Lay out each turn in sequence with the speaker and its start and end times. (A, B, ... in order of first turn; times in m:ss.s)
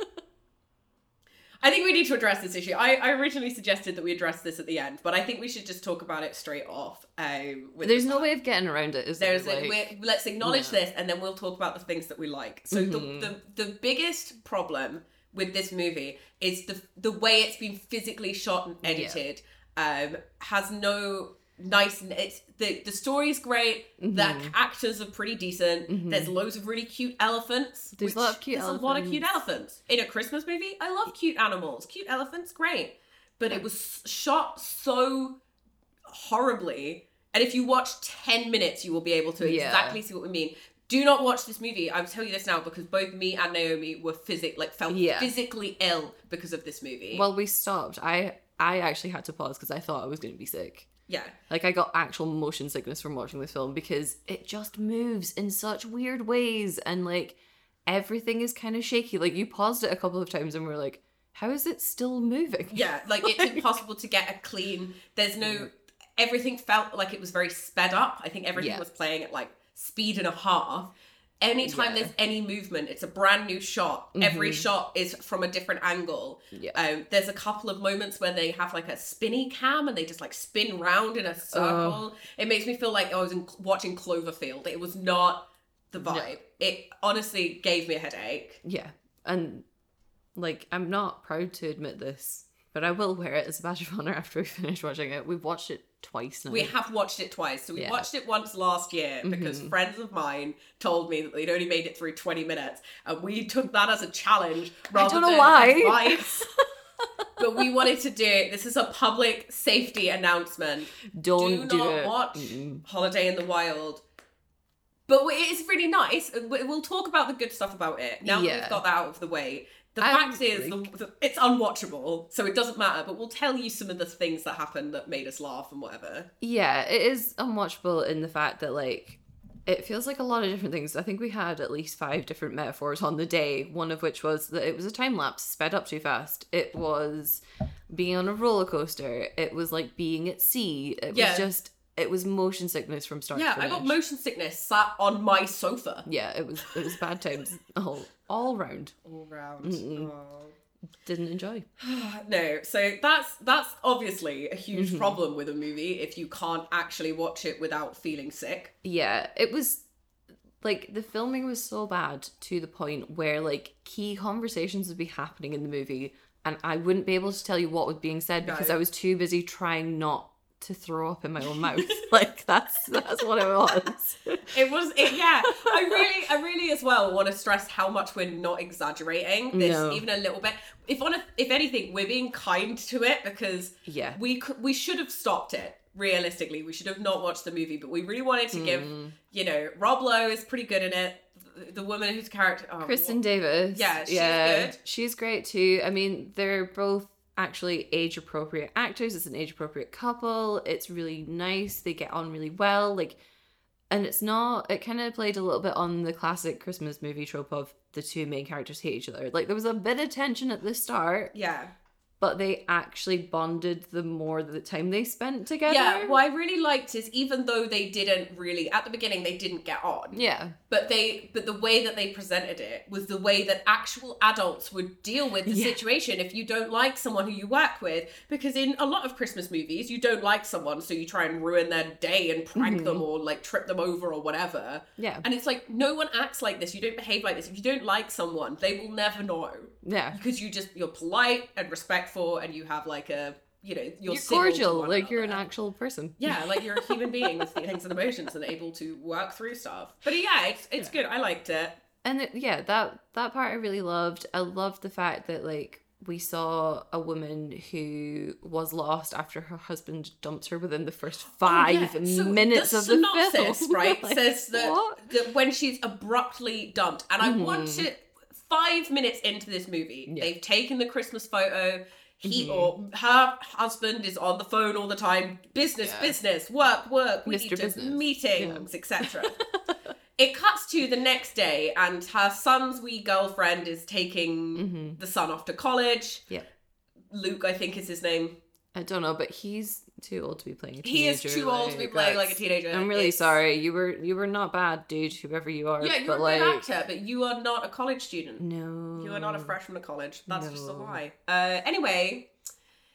0:01.6-0:08.3 A
0:07.8-0:10.8 B
0:09.2-0:35.4 A
0:12.7-0:13.3 B
0:18.8-0:19.2 B
0:24.0-0:24.5 B
0:25.9-0:26.3 B
0:28.0-0:29.3 B
0:36.1-0:47.3 A
0:39.4-0:40.0 B
0:44.9-0:45.3 B
0:47.1-0:50.9 B
0:51.1-0:51.4 A
0:51.5-1:03.6 B
1:02.7-1:28.6 A
1:05.4-1:05.7 B
1:08.6-1:08.8 B
1:11.6-1:12.1 B
1:14.2-1:14.7 B
1:16.5-1:16.8 B
1:21.5-1:22.0 B
1:26.0-1:26.4 B
1:28.6-1:29.7 B
1:30.4-1:36.7 B
1:36.5-1:46.5 A
1:37.8-1:38.1 B
1:39.2-1:39.7 B
1:44.9-1:46.6 B
1:47.2-1:47.9 B
1:47.4-1:54.0 A
1:51.1-1:52.8 B
1:55.1-2:06.3 A
1:58.2-1:58.8 B
2:00.0-2:00.8 B
2:06.4-2:24.0 B
2:21.1-2:21.5 A
2:23.3-2:26.1 A
2:26.1-2:29.0 B
2:29.0-2:30.6 A
2:29.6-2:30.1 B
2:31.0-2:31.7 B
2:31.8-2:38.7 A
2:34.7-2:35.2 B
2:38.8-2:39.8 B
2:40.6-2:54.6 B
2:48.4-2:48.8 A
2:51.5-2:52.1 A
2:54.5-3:13.2 A
2:55.1-2:56.1 B
2:59.5-3:00.1 B
3:03.8-3:04.2 B
3:08.5-3:09.2 B
3:12.8-3:23.2 B
3:13.7-3:14.8 A
3:23.9-3:31.3 B
3:31.3-3:31.7 A
3:32.2-3:36.2 B
3:35.7-4:05.4 A
3:40.1-3:40.6 B
3:45.5-3:45.8 B
3:52.6-3:53.0 B
3:55.0-3:55.2 B
3:59.8-4:00.2 B
4:04.1-4:07.5 B
4:06.2-4:11.8 A
4:12.0-4:25.1 B
4:21.4-4:39.4 A
4:27.2-4:27.9 B
4:30.1-4:30.3 B
4:32.2-4:32.7 B
4:35.8-4:36.2 B
4:37.3-4:39.7 B
4:40.2-4:46.3 A
4:44.6-4:45.0 B
4:47.1-4:48.4 A
4:48.7-4:56.7 B
4:50.8-4:53.4 A
4:55.8-5:02.3 A
4:58.4-4:59.5 B
5:00.3-5:01.0 B